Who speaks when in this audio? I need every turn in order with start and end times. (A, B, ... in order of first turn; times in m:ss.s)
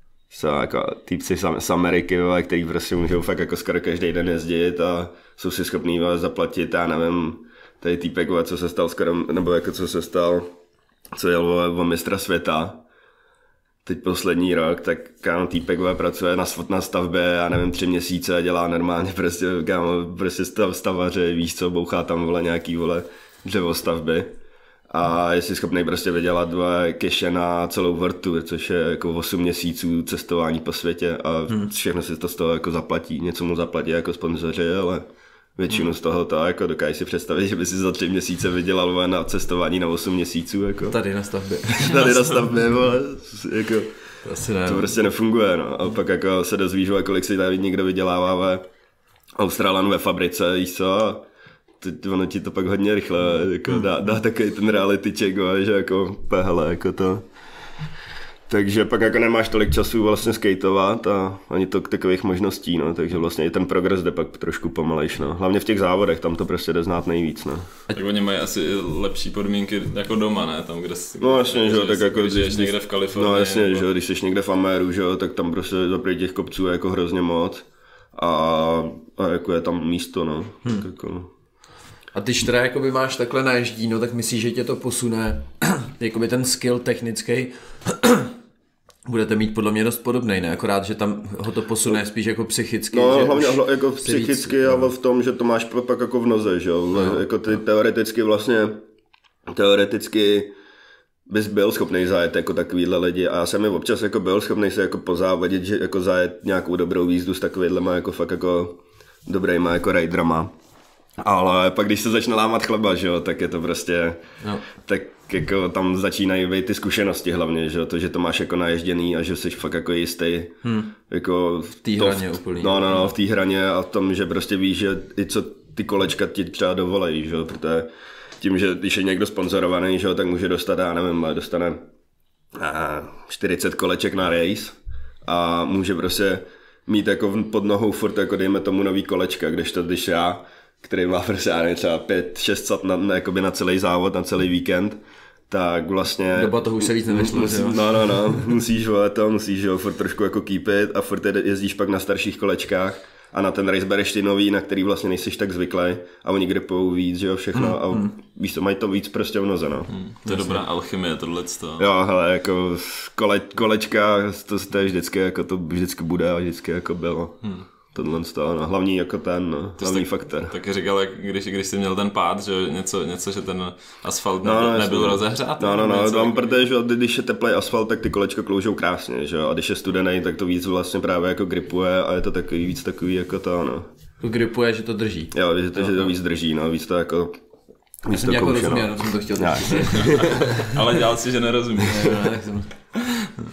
0:00.3-0:10.5 A
0:11.1-0:12.8 A
0:13.8-0:24.3 A
0:24.9-0:41.0 A
0:40.8-0:42.2 B
0:41.7-0:43.9 A
0:44.2-0:45.0 B
0:44.6-0:48.6 A
0:49.4-0:51.2 A
0:51.8-0:57.2 A
0:58.5-1:07.7 A
1:07.9-1:13.8 C
1:11.2-1:21.3 A
1:22.1-1:28.3 B
1:29.0-1:34.9 B
1:32.9-1:38.8 A
1:36.9-1:37.2 B
1:39.5-1:40.5 A
1:41.3-1:50.5 A
1:51.2-2:00.6 A
2:00.6-2:00.9 B
2:01.1-2:11.8 A
2:01.8-2:02.9 B
2:12.5-2:39.9 A
2:26.3-2:28.4 B
2:37.6-2:38.1 B
2:39.9-2:41.9 C
2:40.2-2:40.6 B
2:41.8-2:50.5 A
2:49.8-2:56.6 C
2:54.4-3:03.9 A
3:04.2-3:06.1 B
3:05.3-3:07.4 A
3:08.0-3:10.4 A
3:08.1-3:10.7 B
3:09.9-3:12.3 C
3:11.8-3:12.7 B
3:13.0-3:13.3 C